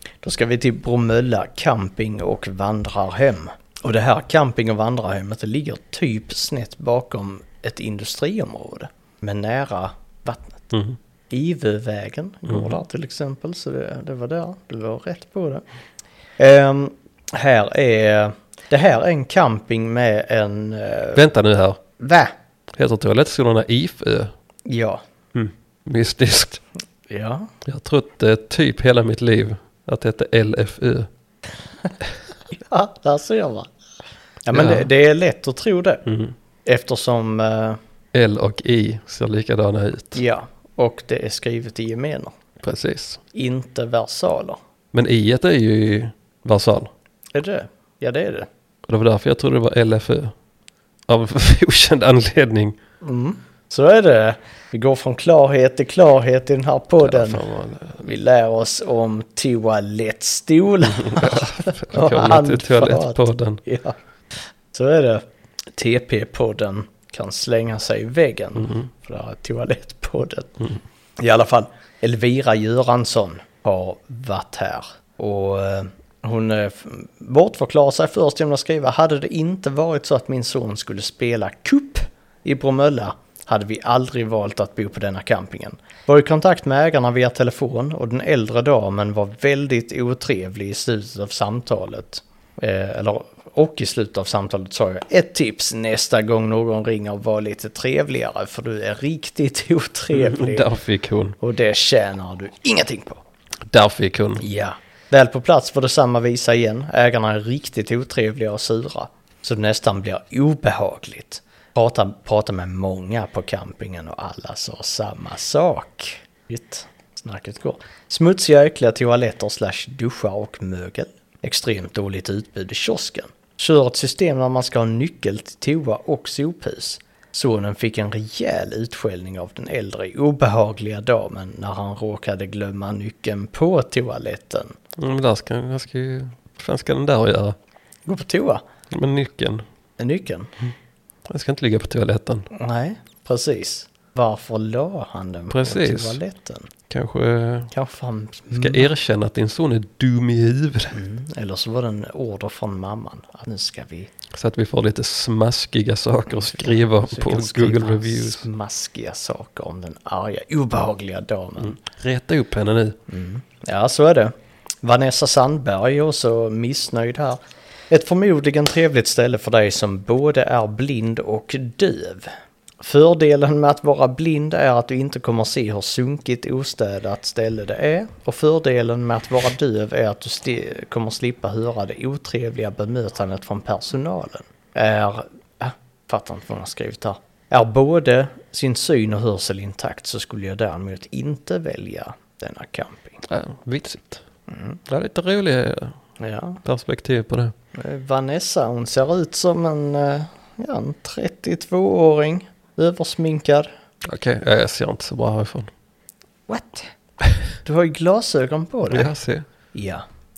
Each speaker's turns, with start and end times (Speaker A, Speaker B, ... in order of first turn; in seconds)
Speaker A: 0.2-10.7, 11.3-15.6, 16.4-21.2, 22.0-22.3, 24.6-25.0, 27.1-27.5, 32.5-33.7, 34.4-36.0, 36.6-37.8, 40.1-42.4, 43.3-44.6, 47.3-48.5, 53.0-57.4, 58.0-70.7, 71.2-100.7, 101.4-103.2, 104.4-134.8, 138.0-138.6, 140.0-140.5, 142.5-146.7, 147.7-148.9, 150.9-154.1, 156.4-161.8, 163.1-193.2, 194.5-194.8, 196.2-196.6, 197.7-203.7, 206.5-206.9, 207.6-209.1, 209.7-210.0
Speaker B: 10.7-11.0, 21.1-21.8, 22.8-24.3, 25.3-26.6, 27.6-31.1, 34.5-34.9, 36.0-36.3, 38.1-40.2, 42.6-43.2, 44.9-46.9, 48.9-50.3, 51.1-52.8, 57.0-58.0, 60.9-63.6, 68.6-68.9, 100.1-101.3, 103.7-104.4, 135.0-137.6, 138.9-139.6, 141.3-142.5, 145.5-146.2, 146.9-147.7, 148.5-151.0, 154.3-158.4, 161.6-163.0, 193.3-194.2, 194.9-196.0, 196.6-197.5, 204.1-205.7, 208.9-209.5